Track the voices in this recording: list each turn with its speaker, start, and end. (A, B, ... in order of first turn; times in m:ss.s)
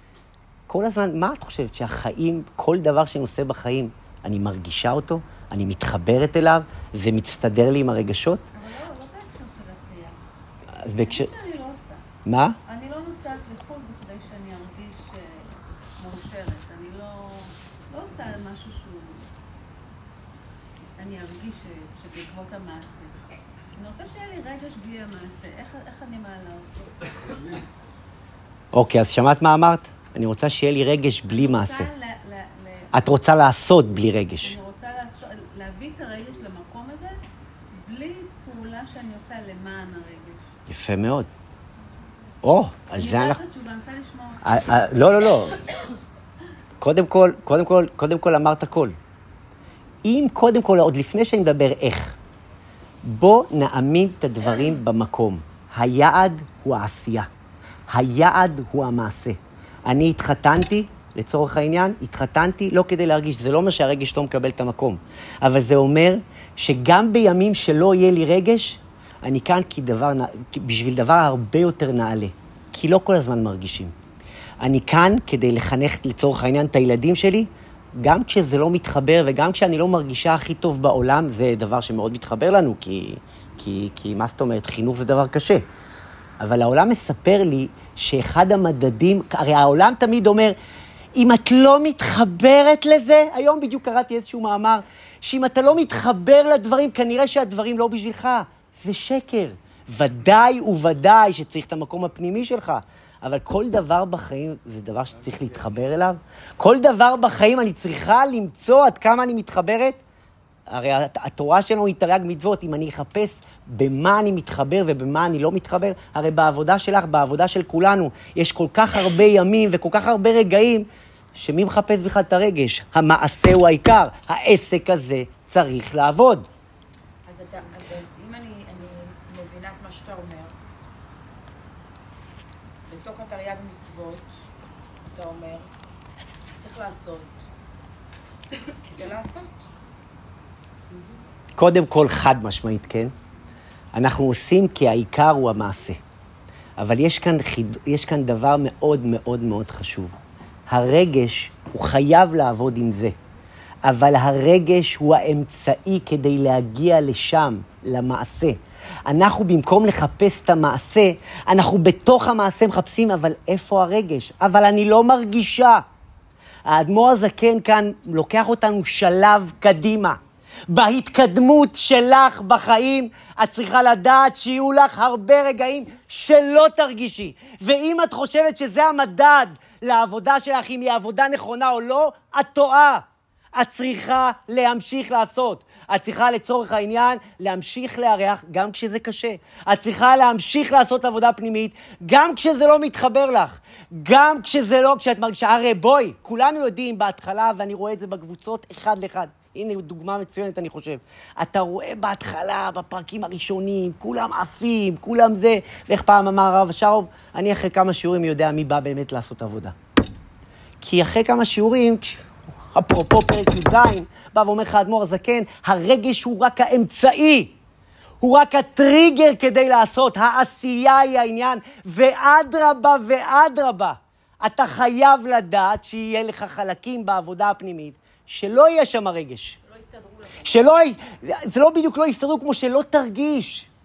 0:00.7-0:08.4 A
0:08.5-0:10.1 B
0:10.8-0:11.3 A
0:10.9-0:12.0 B
0:12.2-0:12.6 A
0:12.7-0:19.3 B
0:21.0-0:23.1 B
0:23.8-0:26.9 B
0:28.7-0:31.9 A
0:31.3-0:33.0 B
0:32.9-0:34.5 A
0:34.4-0:37.2 B
0:37.7-0:40.4 B
0:40.7-0:41.3 A
0:42.4-0:43.4 A
0:43.0-0:44.8 B
0:44.4-0:45.5 A
0:46.8-0:49.0 A
0:50.0-0:52.2 A
0:53.0-0:57.3 A
0:57.9-1:13.9 A
1:14.6-1:25.6 A
1:26.4-1:30.6 A
1:31.1-1:50.0 A
1:50.7-2:06.5 A
2:07.2-2:10.5 C
2:12.9-2:14.3 C
2:15.1-2:15.7 C
2:16.5-2:17.3 C
2:18.9-2:19.5 C
2:21.6-2:23.1 A
2:23.9-2:26.0 A
2:26.8-2:30.2 A
2:30.7-2:33.2 A
2:33.8-2:45.8 A
2:46.6-2:50.2 A
2:50.7-3:03.0 A
3:03.5-3:29.7 A
3:30.8-3:37.5 A
3:38.2-3:49.6 A
3:49.6-3:50.6 C
3:50.4-3:53.7 A